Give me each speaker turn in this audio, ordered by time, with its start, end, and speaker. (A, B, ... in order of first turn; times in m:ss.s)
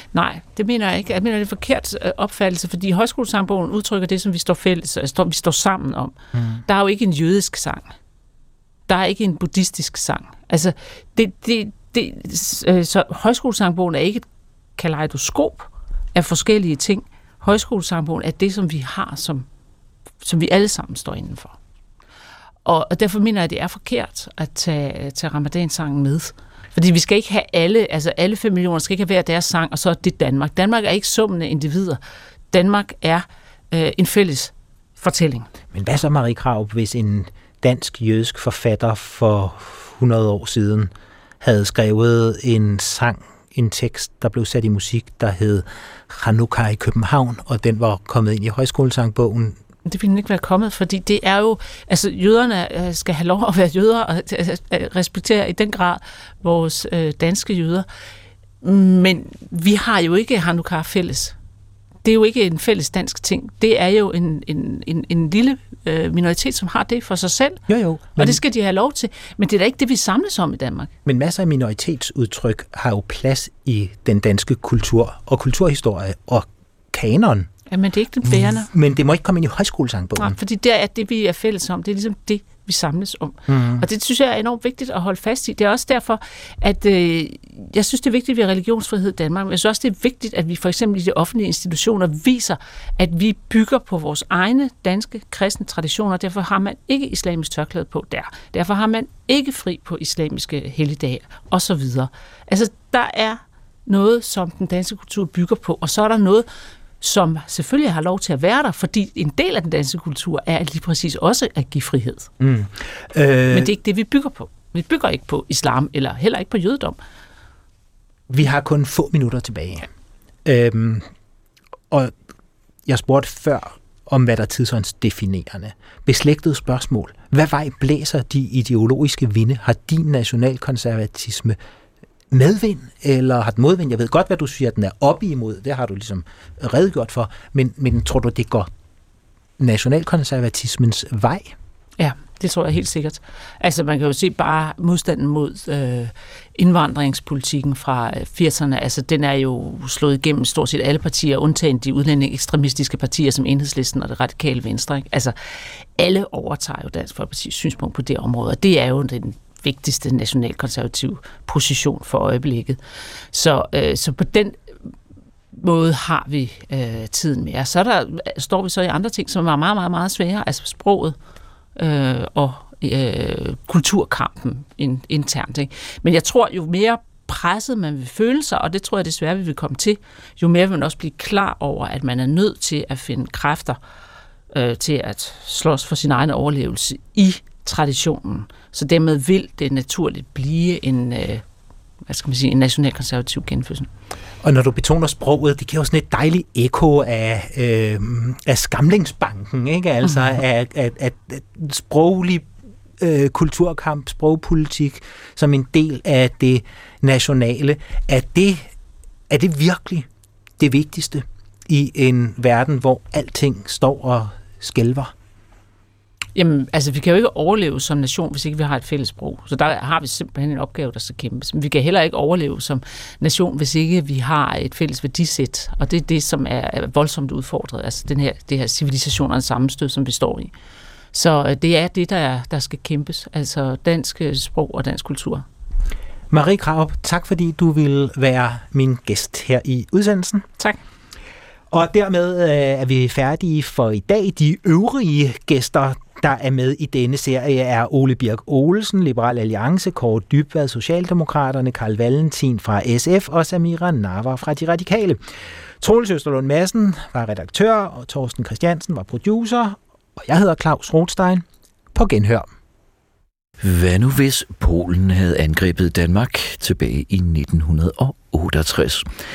0:00.1-0:07.9 A
0:06.3-0:06.6 B
0:08.9-0:14.2 A
0:14.8-0:19.5 A
0:20.2-0:21.6 A
0:22.6-0:32.0 A
0:32.5-0:35.5 A
0:35.7-0:49.6 B
0:49.8-0:57.8 A
0:58.6-1:01.4 A
1:02.0-1:07.6 A
1:07.7-1:08.4 B
1:08.2-1:10.9 A
1:11.0-1:17.5 B
1:17.7-1:18.7 A
1:18.2-1:20.4 B
1:20.2-1:46.5 A
1:23.5-1:23.8 B
1:47.0-1:52.3 A
1:52.4-1:53.7 B
1:53.5-1:57.0 A
1:58.3-1:59.9 B
2:00.4-2:01.1 B
2:01.9-2:02.2 B
2:02.8-2:11.6 B
2:12.3-2:18.7 B
2:19.6-2:21.5 B
2:22.0-2:42.8 A
2:43.3-2:44.7 A
2:45.5-2:51.2 A
2:51.8-3:03.8 A
3:04.5-3:11.4 A
3:12.1-3:13.9 A
3:14.4-3:22.5 B
3:23.0-3:28.7 B
3:29.3-3:30.1 B
3:30.6-3:35.1 B
3:36.3-3:50.5 A
3:51.1-3:55.4 A
3:56.3-4:00.4 B
4:01.7-4:15.2 B
4:15.8-4:22.5 B
4:23.6-4:29.1 C